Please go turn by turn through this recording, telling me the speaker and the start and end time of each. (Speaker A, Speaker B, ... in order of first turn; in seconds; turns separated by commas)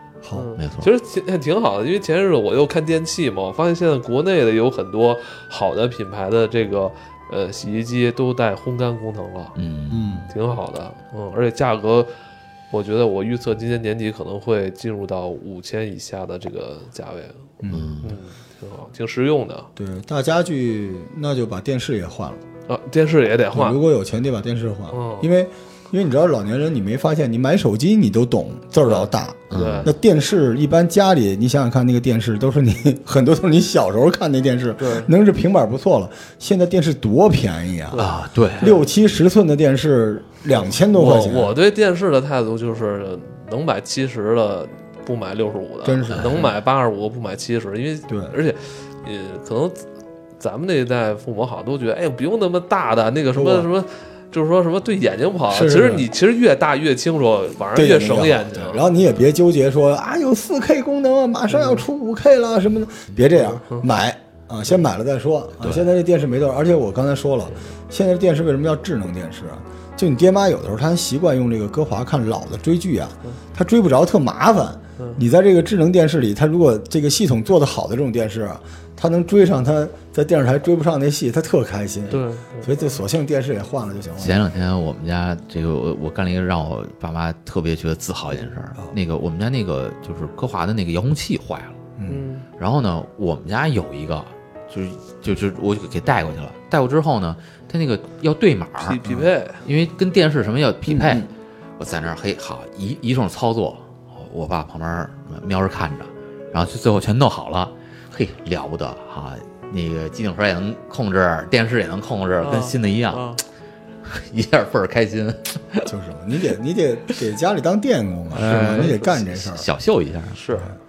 Speaker A: 0.2-0.5, Speaker B: 0.3-9.6, Speaker C: 0.6-0.9, Speaker C: 9.6-10.3, Speaker A: 9.9-10.3, Speaker B: 10.3-12.1, Speaker B: 12.7-17.5, Speaker A: 17.6-17.9, Speaker C: 17.7-18.2, Speaker B: 18.0-19.7, Speaker A: 19.8-22.4, Speaker B: 22.7-23.8, Speaker A: 23.5-41.6, Speaker B: 24.9-25.3, Speaker B: 28.9-29.9, Speaker C: 29.5-29.9, Speaker B: 34.8-35.1, Speaker B: 37.9-38.8, Speaker C: 38.0-38.8, Speaker B: 40.6-49.9, Speaker A: 45.8-46.5, Speaker A: 48.1-48.4, Speaker B: 50.4-58.9, Speaker A: 53.3-53.7, Speaker A: 55.5-56.1, Speaker A: 57.8-84.4, Speaker B: 61.5-61.8, Speaker B: 63.5-63.9, Speaker C: 65.6-65.9, Speaker B: 82.1-82.7, Speaker C: 84.2-91.8, Speaker A: 92.0-92.2, Speaker B: 92.1-92.5, Speaker C: 92.6-99.0, Speaker B: 98.8-99.7, Speaker C: 99.6-113.4, Speaker A: 100.9-101.3, Speaker B: 112.4-113.4, Speaker C: 114.0-115.9, Speaker A: 115.9-119.7, Speaker C: 118.3-120.4, Speaker B: 118.4-119.2, Speaker B: 120.3-120.7